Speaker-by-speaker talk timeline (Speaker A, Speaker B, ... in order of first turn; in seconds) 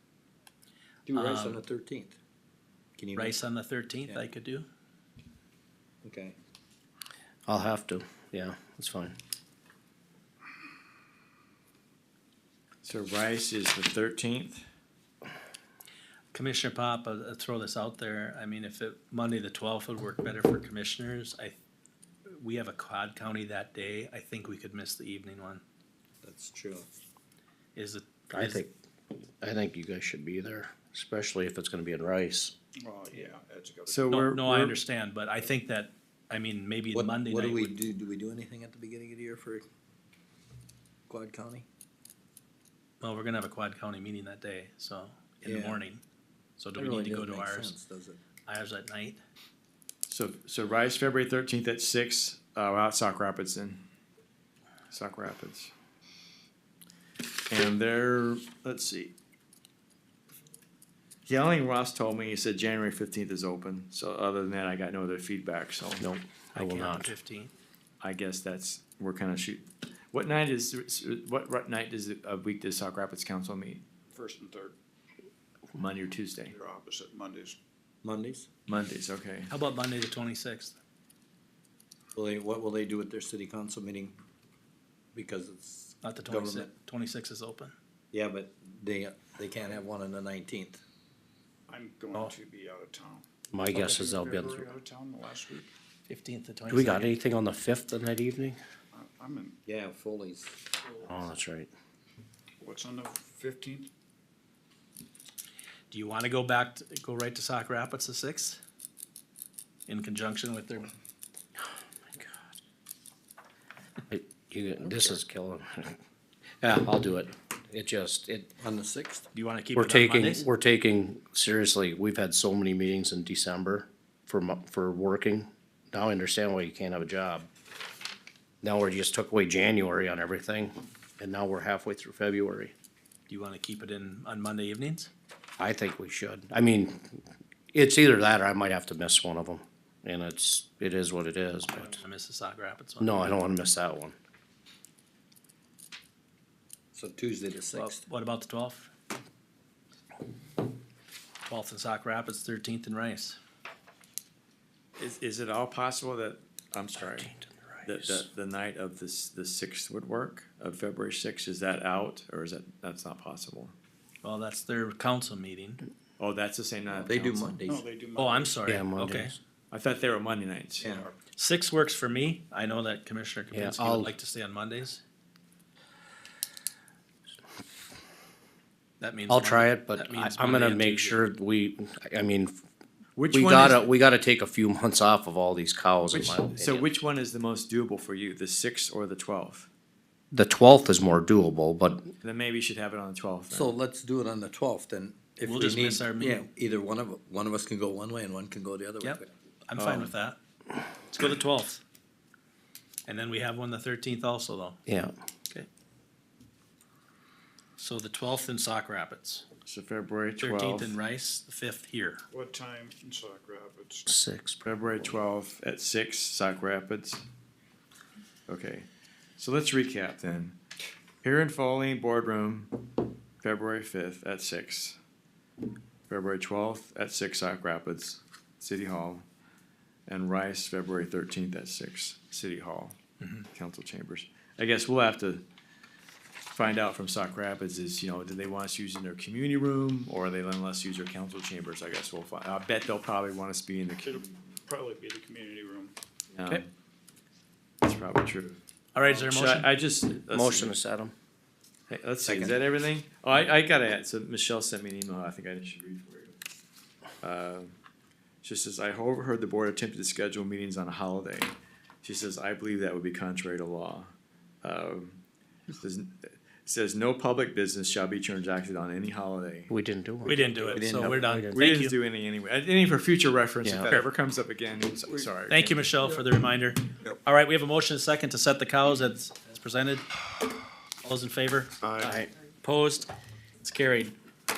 Speaker A: 1.1-2.2, 3.0-3.4, 6.0-6.4, 26.2-26.9, 36.9-39.6, 41.1-41.7, 45.4-45.8, 46.8-48.2, 78.0-78.5, 82.2-84.2, 85.1-86.7, 88.1-90.8, 99.7-100.6, 114.8-115.1, 118.6-119.3, 146.9-148.0, 166.9-167.8, 170.8-171.1, 193.5-200.1, 252.2-252.6, 270.7-271.3
Speaker B: 1.1-1.6, 3.1-4.7, 16.3-21.6, 22.3-25.6, 27.8-28.6, 34.1-37.9, 43.0-46.0, 46.6-47.8, 48.5-49.2, 66.5-67.5, 79.5-80.8, 86.0-87.7, 96.1-97.2, 105.9-108.6, 109.9-110.9, 119.3-120.5, 133.3-135.1, 141.8-143.3, 147.7-148.9, 151.5-153.4, 164.2-165.8, 168.2-169.4, 171.4-175.0, 179.0-181.2, 195.4-196.5, 199.0-200.4, 201.1-201.8, 203.1-204.8, 207.8-209.4, 210.4-212.2, 233.2-233.5, 248.9-249.7, 270.2-272.0, 275.5-280.1, 281.0-283.1, 283.6-284.1
Speaker C: 7.5-9.2, 28.3-28.7, 29.4-32.5, 66.0-67.1, 93.5-94.7, 96.7-98.6, 101.0-101.7, 114.1-116.0, 116.6-118.5, 119.8-127.5, 128.6-132.7, 135.6-137.2, 137.7-142.0, 143.0-144.2, 157.9-158.2, 168.7-169.4, 173.5-174.1, 179.3-182.6, 183.3-186.9, 190.3-192.1, 204.9-205.1, 214.1-215.1, 250.3-251.1, 269.7-271.6, 273.6-273.9, 282.0-282.3
Speaker D: 12.8-14.6, 33.9-34.8, 50.1-53.8, 54.9-55.7, 57.5-59.1, 61.3-66.0, 68.0-73.8, 75.8-76.5, 78.7-79.5, 155.0-157.3, 157.9-163.7, 166.2-167.6, 169.7-170.9, 183.2-183.9, 186.1-189.7, 192.2-193.8, 209.7-211.0, 214.7-217.2, 218.5-220.6, 221.2-222.7, 223.4-225.0, 226.1-229.2, 230.1-233.0, 233.5-235.4, 236.5-244.3, 246.3-246.7, 247.8-250.8, 251.9-256.4, 257.2-257.7, 258.4-264.1, 264.6-265.2, 265.8-269.7, 270.5-275.9
Speaker E: 32.8-34.2, 74.1-74.8, 76.5-77.6, 91.7-95.7, 98.9-99.6, 102.6-103.9, 167.7-168.8, 170.8-171.2, 212.3-214.1, 244.0-245.9, 281.8-282.2